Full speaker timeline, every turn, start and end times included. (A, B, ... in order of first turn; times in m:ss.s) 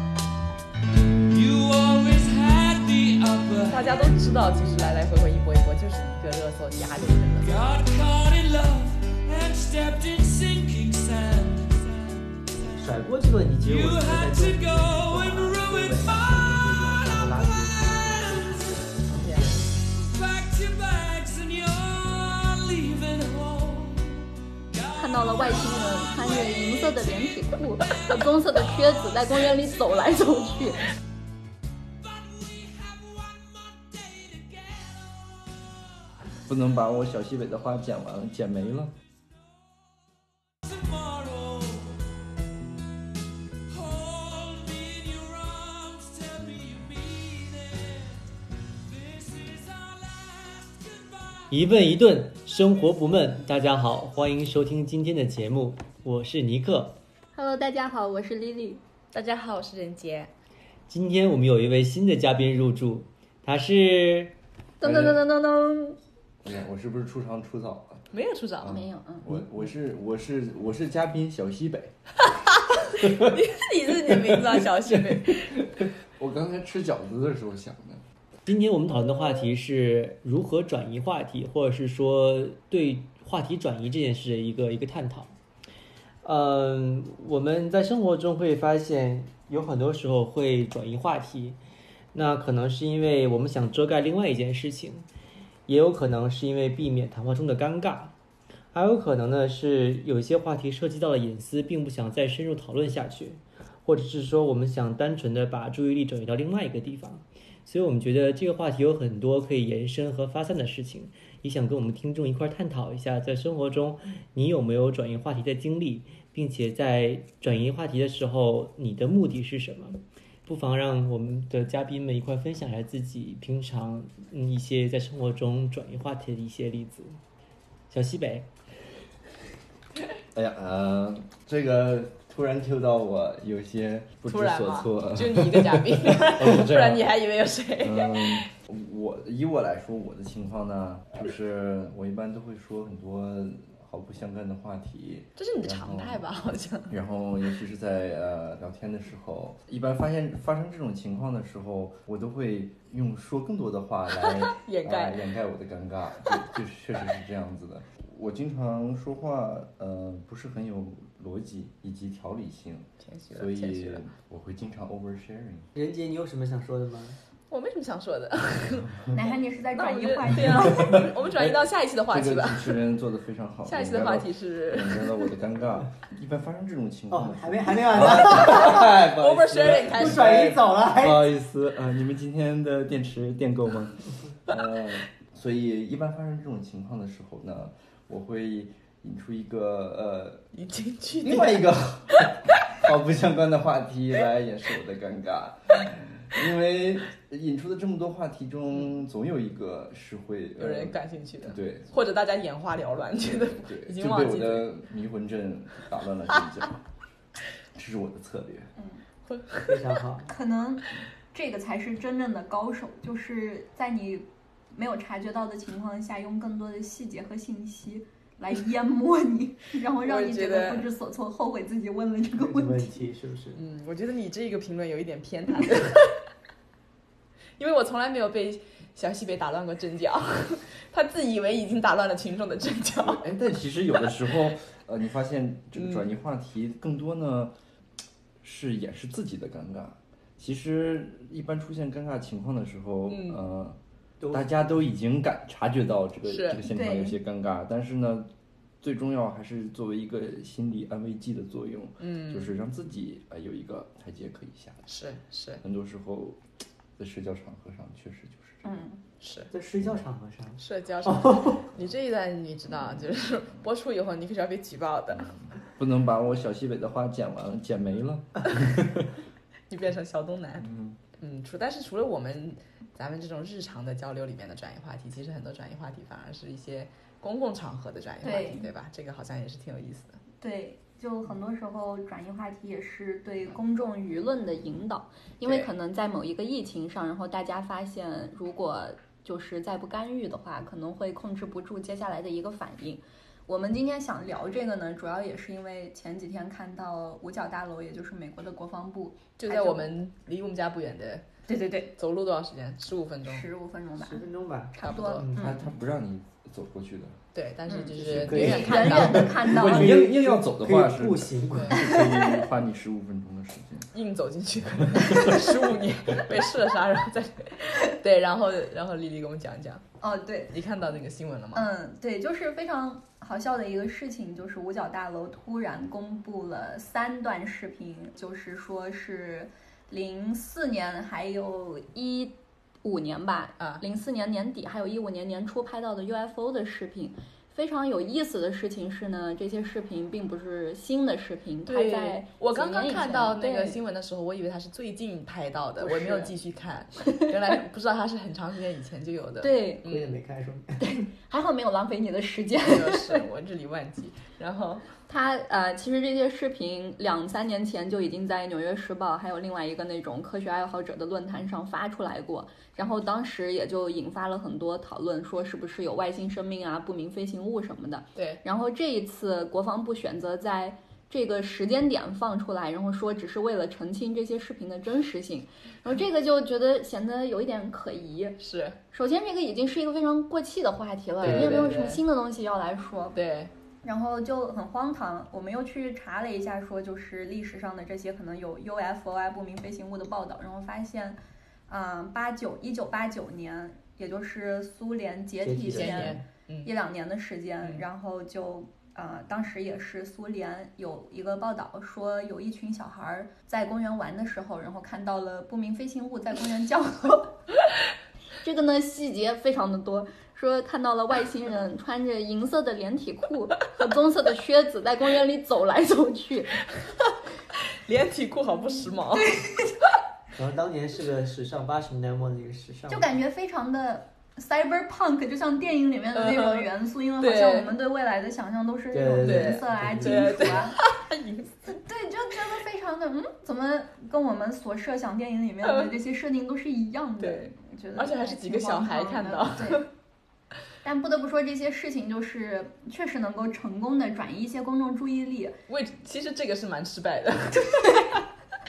0:01.3-0:04.5 A
0:03.7-0:07.5 B
0:07.4-0:12.9 A
0:12.8-0:19.6 C
0:13.6-0:30.8 A
0:19.2-0:19.6 B
0:25.0-0:30.8 D
0:32.0-0:36.4 A
0:36.4-0:38.9 E
0:39.3-0:42.1 A
0:43.6-0:51.7 A
0:51.5-0:57.0 C
0:57.3-0:58.8 D
0:59.1-1:00.3 B
1:00.9-1:04.3 C
1:04.8-1:06.0 D
1:06.4-1:08.1 E
1:08.1-1:08.7 B
1:08.6-1:11.9 E
1:08.6-1:09.4 D
1:12.2-1:15.6 B
1:13.0-1:13.3 E
1:14.1-1:18.0 E
1:18.4-1:25.3 C
1:26.2-1:31.6 C
1:32.1-1:35.1 C
1:35.7-1:38.1 C
1:38.7-2:07.2 C
2:07.9-2:08.5 C
2:10.3-2:17.1 E
2:14.2-2:18.5 B
2:17.8-2:26.2 E
2:25.4-2:27.0 B
2:26.9-2:45.7 E
2:34.2-2:35.2 B
2:43.0-2:44.0 B
2:45.7-2:47.2 C
2:47.5-2:49.1 B
2:49.1-2:51.0 D
2:49.7-2:52.8 B
2:50.3-3:10.4 E
2:53.6-2:55.3 B
2:57.1-2:58.9 C
2:58.3-3:00.4 B
2:59.6-3:01.3 C
3:10.5-3:11.6 B
3:11.2-3:21.9 E
3:20.6-3:24.7 B
3:23.3-3:26.8 E
3:27.7-3:28.7 E
3:28.8-3:29.0 D
3:29.3-3:29.9 B
3:29.7-3:30.3 C
3:30.2-3:43.0 D
3:40.0-3:40.9 B
3:42.4-3:43.6 C
3:43.5-3:46.2 B
3:47.6-3:53.2 B
3:53.0-3:57.5 E
3:55.8-3:56.0 B
3:58.4-4:03.8 E
4:03.1-4:03.4 B
4:04.2-4:04.8 C
4:04.3-4:08.3 E
4:06.2-4:06.6 B
4:06.6-4:07.2 D
4:08.8-4:14.8 E
4:12.0-4:12.5 B
4:14.9-4:15.6 B
4:15.6-4:16.4 E
4:17.0-4:18.6 E
4:18.6-4:19.0 D
4:19.2-4:19.5 B
4:19.5-4:21.6 C
4:20.6-4:25.3 B
4:25.1-4:29.2 E
4:29.7-4:40.2 B
4:30.6-4:31.0 E
4:38.2-4:38.7 D
4:40.4-4:59.9 D
4:45.4-4:45.7 B
4:59.4-5:01.2 B
5:01.5-5:01.9 D
5:02.0-5:03.5 B
5:03.2-5:05.7 D
5:04.0-5:05.6 C
5:04.8-5:05.2 B
5:05.4-5:07.2 E
5:07.3-5:09.3 B
5:07.7-5:10.1 D
5:08.0-5:13.9 E
5:08.0-5:12.0 C
5:11.5-5:11.8 B
5:11.8-5:12.4 D
5:13.9-5:19.8 B
5:14.9-5:15.4 E
5:20.0-5:20.5 D
5:20.5-5:21.7 B
5:21.5-5:43.8 D
5:41.6-5:50.2 B
5:45.8-5:46.3 C
5:49.4-5:49.9 D
5:49.8-5:50.8 C
5:50.8-5:53.2 D
5:52.6-5:54.9 B
5:55.1-6:18.4 D
6:08.2-6:08.4 B
6:18.4-6:18.8 B
6:18.9-6:23.2 D
6:21.2-6:22.0 B
6:21.2-6:21.6 E
6:23.1-6:23.5 B
6:23.8-6:47.4 D
6:35.4-6:36.2 C
6:35.7-6:36.7 B
6:48.4-6:56.6 D
6:57.5-6:59.3 B
6:58.7-6:59.8 D
7:00.3-7:03.2 C
7:02.9-7:10.8 D
7:06.1-7:07.8 B
7:08.9-7:10.7 C
7:09.2-7:11.8 B
7:11.8-7:19.9 D
7:15.6-7:15.9 B
7:17.2-7:19.9 B
7:20.8-7:25.6 D
7:25.7-7:28.2 B